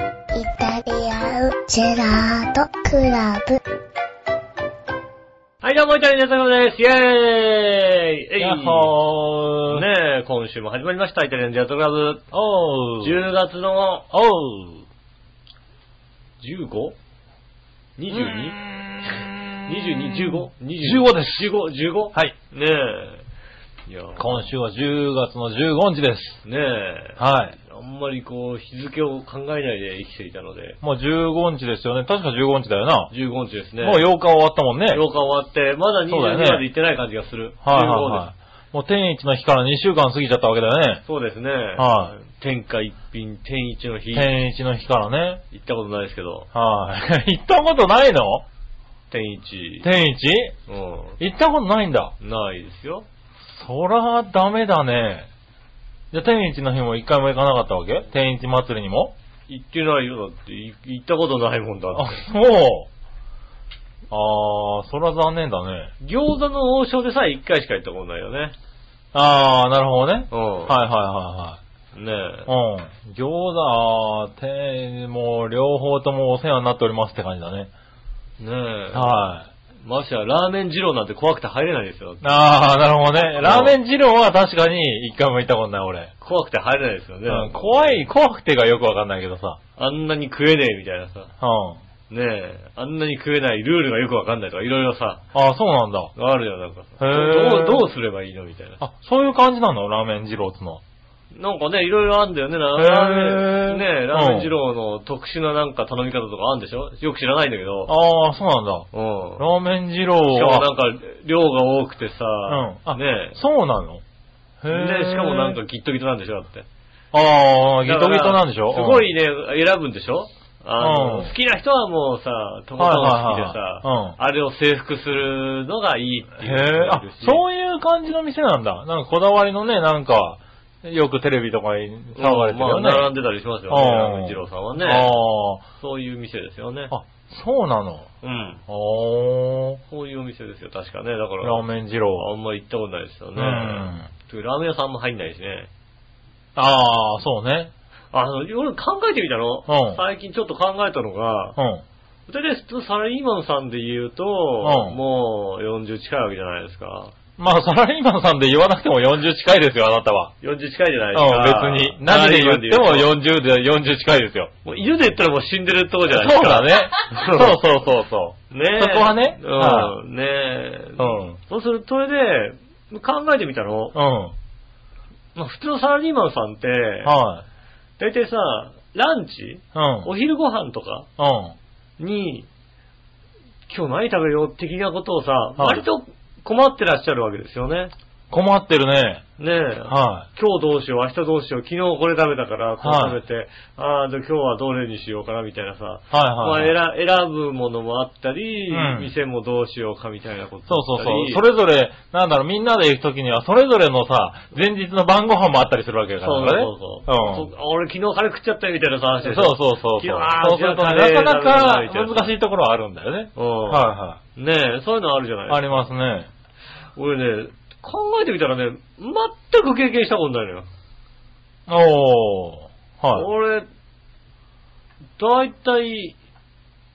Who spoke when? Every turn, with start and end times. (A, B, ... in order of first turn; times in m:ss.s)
0:00.3-0:03.6 A
0:05.6-0:08.9 B
0:08.4-0:09.8 C
0:09.7-0:12.3 B
0:12.3-0:13.2 C
0:13.0-0:14.1 B
0:14.1-0:14.8 C
0:16.4-0:17.0 B
0:18.0-0:23.2 B
0:18.1-0:21.5 C
0:23.9-0:24.4 B
0:24.2-0:26.4 C
0:26.4-0:30.8 B
0:27.2-0:27.6 C
0:30.8-0:33.1 C
0:33.1-0:34.0 B
0:33.8-0:35.0 C
0:34.9-0:38.3 B
0:36.1-0:36.7 C
0:37.6-0:41.0 C
0:41.1-0:44.3 B
0:41.8-0:42.2 C
0:44.1-0:45.4 C
0:45.5-0:46.5 B
0:46.5-0:48.4 C
0:49.1-0:49.9 B
0:49.8-0:50.5 C
0:50.7-0:51.2 B
0:51.2-0:52.2 C
0:52.2-0:53.0 B
0:53.5-0:55.3 C
0:56.1-0:59.1 C
0:59.5-1:02.2 B
1:01.9-1:02.9 C
1:04.1-1:05.9 C
1:06.0-1:08.5 B
1:09.1-1:11.6 C
1:10.3-1:10.8 B
1:11.9-1:12.5 B
1:12.5-1:17.7 C
1:18.4-1:19.3 B
1:18.9-1:19.5 C
1:19.8-1:22.3 B
1:22.2-1:26.1 C
1:23.4-1:23.8 B
1:26.2-1:28.0 B
1:27.3-1:29.6 C
1:29.8-1:31.3 B
1:31.4-1:31.8 C
1:32.1-1:35.2 B
1:35.3-1:36.1 C
1:36.2-1:38.8 B
1:37.0-1:37.9 C
1:38.8-1:40.8 C
1:41.3-1:47.9 B
1:42.8-1:44.5 C
1:47.9-1:48.9 C
1:48.9-1:49.4 B
1:49.4-1:50.7 C
1:50.3-1:53.4 B
1:52.5-1:54.0 C
1:54.6-1:55.6 C
1:54.7-1:56.7 B
1:57.1-1:59.1 C
1:57.8-2:07.4 B
2:00.8-2:01.3 C
2:02.8-2:04.2 C
2:06.4-2:13.1 C
2:12.2-2:15.2 B
2:13.7-2:15.6 C
2:15.8-2:16.9 B
2:16.9-2:18.1 C
2:18.2-2:18.6 B
2:18.7-2:19.8 C
2:19.9-2:21.6 B
2:21.4-2:22.3 C
2:22.2-2:25.7 B
2:23.4-2:24.1 C
2:26.6-2:27.7 C
2:28.1-2:31.6 B
2:29.7-2:30.0 C
2:31.6-2:31.8 C
2:32.3-2:37.1 B
2:34.6-2:35.0 C
2:37.4-2:40.3 C
2:40.4-2:43.1 B
2:41.1-2:44.5 C
2:44.6-2:47.6 B
2:46.1-2:50.0 C
2:48.5-2:54.0 B
2:51.0-2:51.4 C
2:53.9-2:54.4 C
2:55.4-2:57.2 B
2:57.0-2:57.4 C
2:58.0-3:01.1 B
2:59.7-3:00.1 C
3:01.2-3:01.6 C
3:02.0-3:02.5 B
3:03.7-3:07.9 B
3:05.6-3:05.8 C
3:08.3-3:09.2 C
3:09.4-3:21.4 B
3:09.9-3:10.3 C
3:12.8-3:13.2 C
3:16.1-3:16.7 C
3:18.7-3:19.1 C
3:20.7-3:27.5 C
3:26.2-3:32.3 B
3:29.2-3:34.2 C
3:33.4-3:35.8 B
3:35.5-3:36.3 C
3:37.0-3:40.7 B
3:41.7-3:43.3 C
3:43.1-3:43.7 B
3:45.2-3:46.2 B